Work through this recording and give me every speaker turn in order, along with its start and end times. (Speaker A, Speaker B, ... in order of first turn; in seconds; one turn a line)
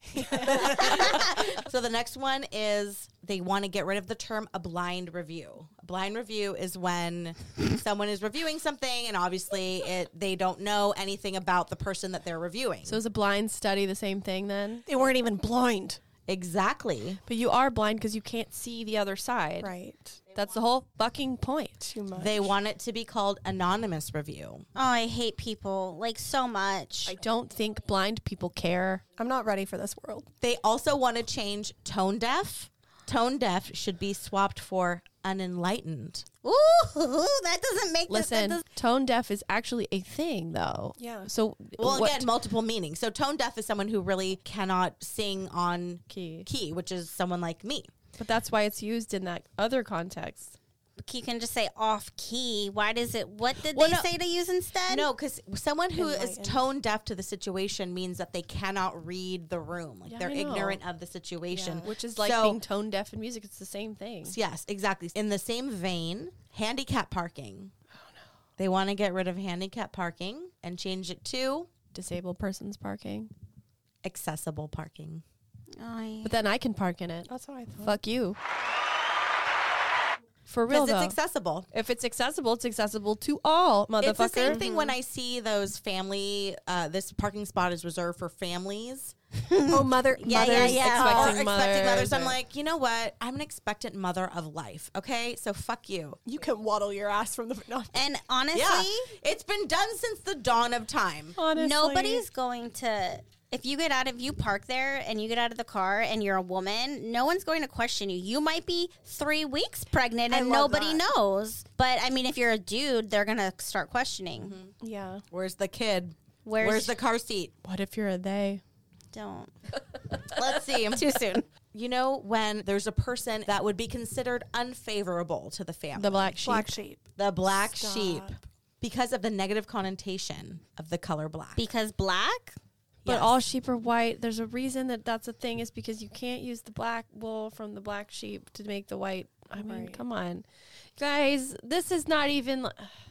Speaker A: 0.2-0.9
Speaker B: 0.2-13.0
Speaker C: 0.4-1.3
Speaker D: 12.9-14.8
Speaker A: 14.9-16.0
Speaker B: 16.3-17.2
Speaker D: 17.3-19.7
Speaker A: 19.6-20.2
Speaker D: 20.3-21.9
Speaker A: 21.8-22.6
Speaker B: 22.1-24.6
Speaker C: 24.8-27.1
Speaker D: 27.1-29.0
Speaker A: 29.2-30.3
Speaker B: 30.4-36.3
Speaker C: 36.4-38.6
Speaker D: 38.1-42.3
Speaker A: 41.0-41.3
Speaker B: 41.8-47.9
Speaker D: 46.1-46.5
Speaker D: 48.2-50.6
Speaker C: 51.0-55.1
Speaker B: 53.6-54.1
Speaker B: 54.9-62.6
Speaker A: 56.0-56.6
Speaker D: 60.1-60.8
Speaker A: 61.5-61.9
Speaker D: 61.8-64.4
Speaker B: 64.3-67.7
Speaker B: 68.6-71.7
Speaker D: 71.9-73.3
Speaker B: 74.0-75.2
Speaker C: 75.8-76.3
Speaker D: 76.2-77.3
Speaker A: 77.3-78.0
Speaker D: 77.8-78.4
Speaker D: 80.5-81.2
Speaker B: 80.7-81.7
Speaker D: 81.7-84.6
Speaker B: 84.0-89.2
Speaker A: 84.5-84.9
Speaker C: 89.4-91.3
Speaker A: 89.7-91.4
Speaker B: 90.2-96.2
Speaker D: 90.8-92.4
Speaker A: 96.3-98.1
Speaker C: 97.9-99.1
Speaker B: 98.5-101.4
Speaker A: 101.4-102.2
Speaker C: 101.5-114.6
Speaker A: 110.3-110.8
Speaker B: 110.3-111.0
Speaker B: 114.4-114.7
Speaker A: 114.8-115.2
Speaker B: 115.3-117.5
Speaker C: 116.5-117.0
Speaker D: 117.6-118.6
Speaker C: 119.1-119.5
Speaker B: 120.3-121.2
Speaker C: 120.3-121.5
Speaker B: 121.7-126.4
Speaker D: 126.0-126.8
Speaker A: 126.4-127.0
Speaker B: 127.2-131.7
Speaker A: 127.7-128.4
Speaker C: 131.6-132.6
Speaker B: 133.1-133.3
Speaker D: 133.1-140.4
Speaker A: 139.5-140.0
Speaker D: 141.0-142.9